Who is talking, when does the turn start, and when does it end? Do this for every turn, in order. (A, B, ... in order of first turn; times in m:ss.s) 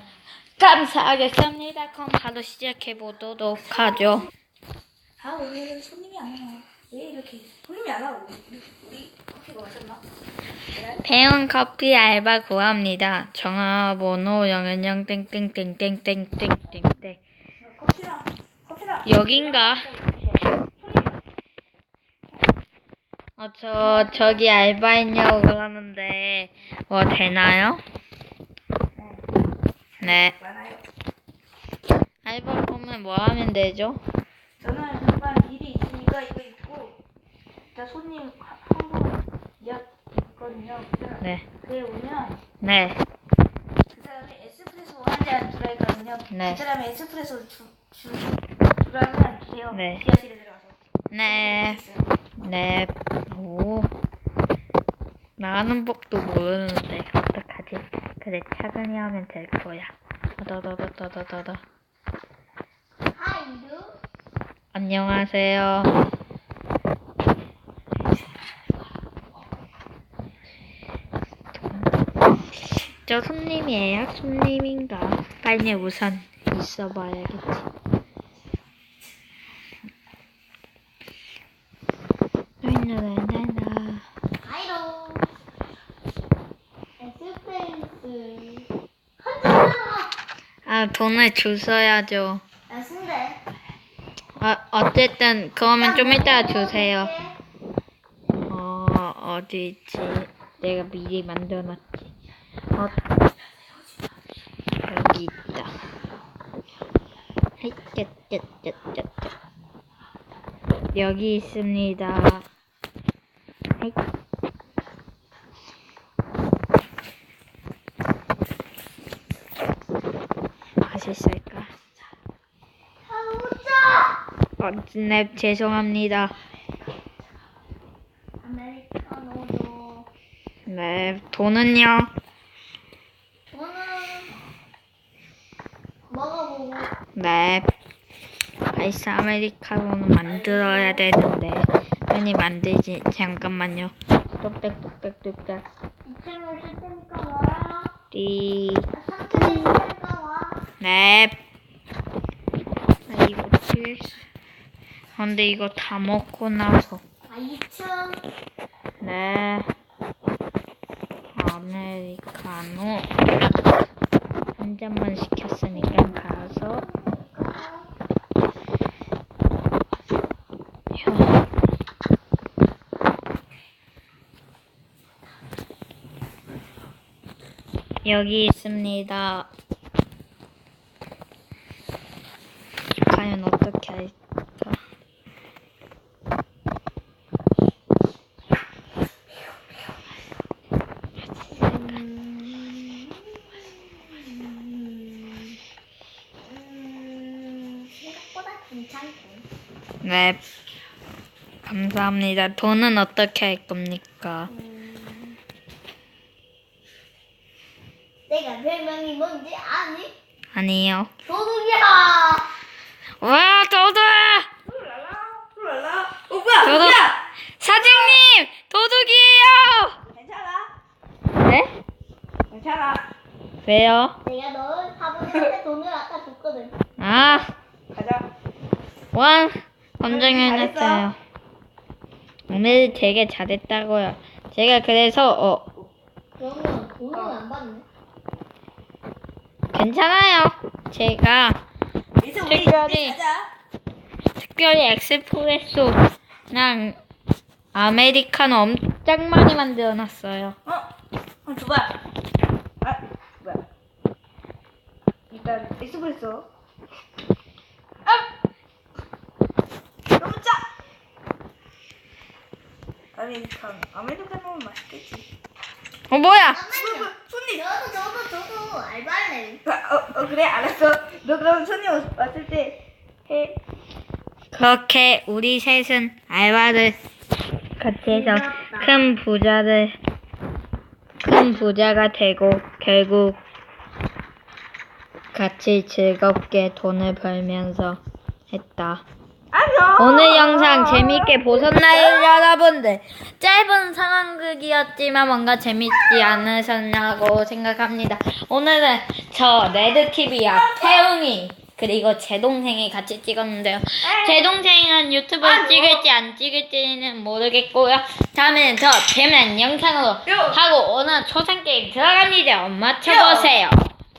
0:00.6-0:04.3 A
0:05.2-0:10.0 B
0:10.7-0:11.0 B
0:11.0-0:17.2 A
0:17.6-0:21.2 B
0:19.0-0:19.8 A
0:23.4-0:27.8 A
0:23.8-0:24.4 B
0:30.0-0:30.3 A
0:30.0-0:30.8 B
0:32.2-0:34.0 A
0:34.6-0:37.0 B
0:37.7-0:42.4 B
0:41.2-0:41.4 A
0:42.6-0:43.0 A
0:43.9-0:50.7 B
0:46.3-0:46.6 A
0:49.7-0:50.0 A
0:51.1-0:51.8 A
0:51.2-0:52.0 B
0:52.4-0:53.9 A
0:55.4-1:01.6 A
1:03.1-1:03.9 C
1:04.7-1:05.9 A
1:11.5-1:11.9 A
1:12.7-1:17.7 A
1:22.6-1:24.0 A
1:24.4-1:25.3 C
1:27.0-1:28.7 C
1:29.2-1:30.1 C
1:30.7-1:32.4 A
1:32.7-1:33.4 C
1:34.4-1:37.1 A
1:35.7-1:37.3 C
1:38.5-1:41.8 A
1:42.7-1:43.0 A
1:44.8-1:45.7 A
1:47.6-1:49.3 A
1:50.9-1:52.5 A
2:00.8-2:01.7 A
2:03.0-2:04.2 C
2:04.6-2:06.3 A
2:08.4-2:10.1 C
2:10.7-2:12.1 A
2:13.5-2:14.4 C
2:16.1-2:16.9 C
2:17.2-2:17.7 A
2:18.7-2:25.6 A
2:20.5-2:20.9 C
2:26.1-2:27.9 C
2:28.1-2:29.8 A
2:28.9-2:30.6 C
2:30.8-2:31.4 A
2:33.1-2:34.2 A
2:35.2-2:37.0 A
2:37.3-2:38.2 C
2:39.0-2:39.7 A
2:41.3-2:43.1 A
2:44.6-2:46.8 A
2:45.7-2:47.9 C
2:50.9-2:51.4 A
2:58.0-2:59.5 A
3:03.1-3:04.8 A
3:11.6-3:13.0 B
3:16.5-3:19.4 C
3:20.0-3:20.4 A
3:21.6-3:24.5 A
3:24.5-3:25.4 C
3:28.3-3:30.1 C
3:30.5-3:31.1 A
3:31.2-3:32.5 C
3:33.2-3:34.5 A
3:34.7-3:37.2 B
3:36.6-3:40.0 A
3:40.1-3:40.7 B
3:41.4-3:41.7 A
3:42.5-3:43.1 B
3:43.6-3:44.2 A
3:44.2-3:46.7 C
3:47.0-3:47.5 A
3:47.9-3:48.2 B
3:49.1-3:51.2 A
3:50.0-3:51.1 B
3:52.5-3:55.7 A
3:56.4-3:57.8 C
3:59.7-4:01.6 A
4:02.2-4:03.4 B
4:02.5-4:03.2 A
4:04.4-4:07.0 A
4:07.7-4:10.6 A
4:11.4-4:11.9 B
4:12.8-4:13.6 B
4:15.3-4:16.4 B
4:20.2-4:20.6 B
4:23.1-4:25.2 B
4:26.1-4:26.6 A
4:26.5-4:29.6 C
4:26.7-4:27.6 B
4:29.6-4:32.8 B
4:33.3-4:33.6 B
4:34.5-4:37.0 A
4:37.8-4:40.0 A
4:38.1-4:39.0 C
4:41.2-4:43.4 A
4:45.3-4:49.1 A
4:49.5-4:52.5 B
4:50.0-5:13.9 A
5:00.5-5:01.0 B
5:04.0-5:04.5 B
5:05.4-5:06.0 B
5:10.3-5:10.6 B
5:13.1-5:13.5 B